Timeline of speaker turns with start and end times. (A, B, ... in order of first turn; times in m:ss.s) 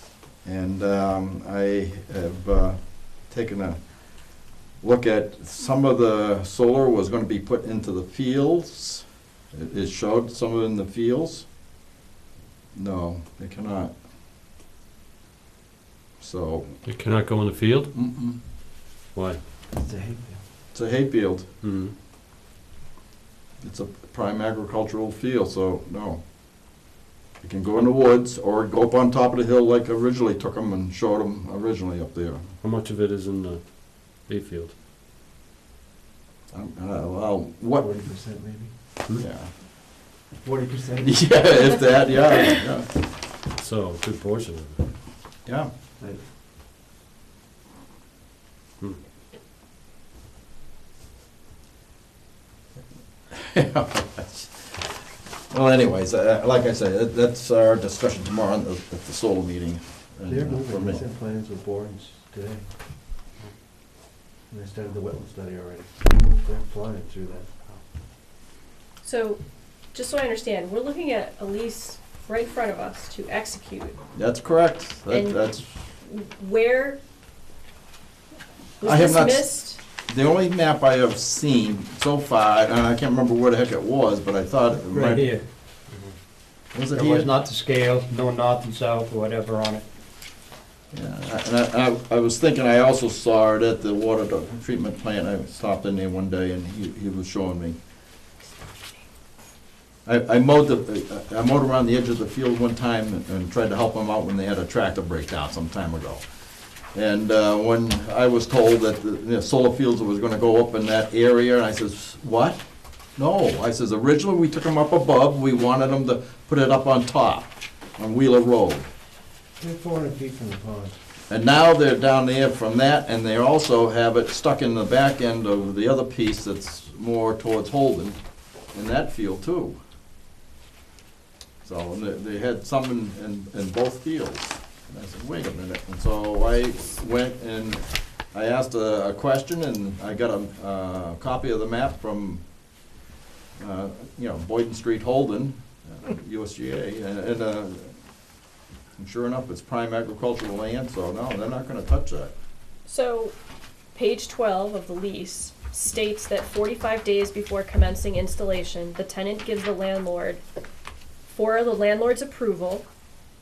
0:00.4-0:11.5 A
0:12.7-0:13.9 A
0:16.2-0:16.7 A
0:16.8-0:17.9 B
0:17.9-0:18.4 A
0:19.1-0:19.4 B
0:19.7-0:20.4 C
0:20.7-0:21.5 A
0:21.6-0:22.0 B
0:23.6-0:26.9 A
0:27.4-0:32.5 A
0:32.6-0:34.7 B
0:36.5-0:37.8 A
0:37.8-0:38.8 C
0:39.2-0:39.6 A
0:40.4-0:41.4 C
0:41.0-0:43.0 A
0:41.6-0:42.4 D
0:43.6-0:44.9 B
0:45.4-0:45.7 A
0:46.0-0:46.3 C
0:53.3-1:01.0 A
1:00.3-1:02.7 C
1:04.5-1:07.5 C
1:09.0-1:09.4 D
1:09.9-1:14.0 D
1:14.2-1:15.6 A
1:15.1-1:15.5 D
1:16.0-1:17.0 D
1:18.8-1:19.8 D
1:18.8-1:19.6 A
1:20.1-1:25.3 A
1:24.8-1:25.4 E
1:26.7-1:27.3 A
1:26.9-1:29.8 E
1:30.9-1:37.8 A
1:40.0-1:46.2 A
1:46.9-1:52.6 A
1:53.2-1:58.9 A
1:59.6-2:01.0 C
2:01.3-2:08.2 A
2:08.7-2:09.8 A
2:11.6-2:22.5 A
2:23.6-2:27.9 A
2:29.0-2:32.3 A
2:32.9-2:33.4 D
2:33.9-2:40.4 D
2:41.3-2:42.9 D